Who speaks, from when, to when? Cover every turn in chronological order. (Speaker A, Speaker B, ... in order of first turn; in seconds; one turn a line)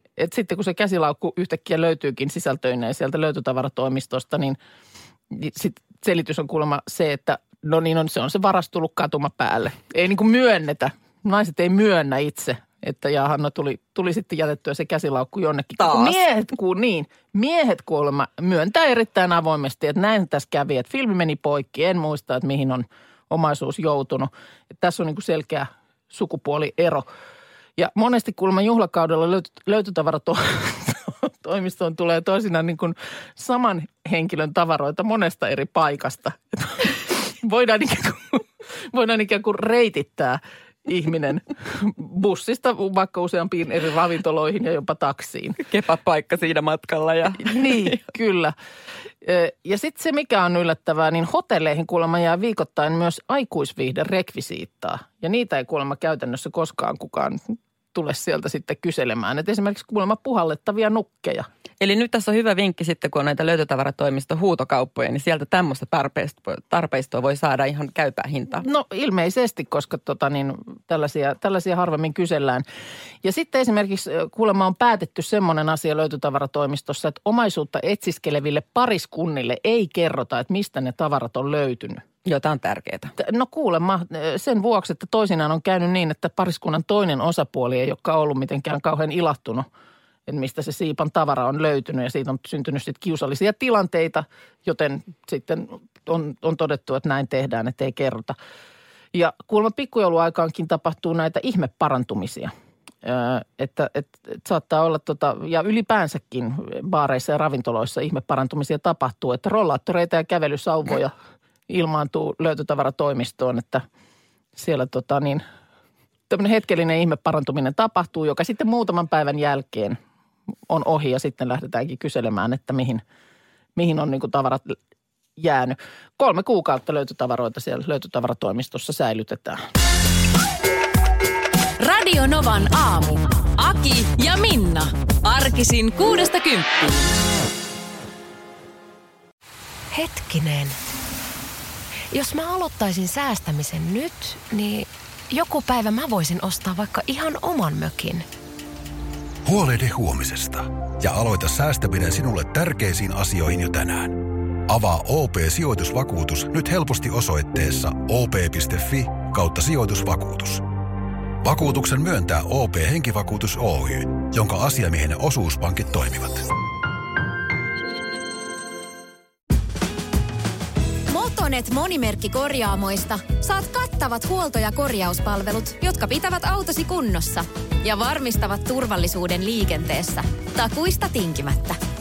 Speaker A: 0.2-4.6
Speaker A: 5.3-27.1
Speaker B: 15.8-16.1
Speaker A: 27.8-45.6
Speaker B: 45.6-48.0
Speaker A: 47.4-48.5
Speaker A: 49.2-61.5
Speaker B: 61.8-68.6
Speaker A: 68.6-72.7
Speaker A: 73.2-82.0
Speaker B: 82.2-83.1
Speaker A: 83.2-89.7
Speaker A: 90.3-98.3
Speaker A: 99.1-102.5
Speaker A: 103.0-111.1
Speaker A: 111.7-113.8
Speaker A: 114.5-115.4
Speaker A: 116.3-120.0
Speaker A: 120.7-123.0
Speaker A: 123.8-124.8
Speaker A: 125.4-129.6
Speaker C: 131.8-137.1
Speaker D: 139.9-140.8
Speaker D: 142.1-148.2
Speaker E: 149.4-160.6
Speaker E: 161.4-166.4
Speaker C: 171.1-181.8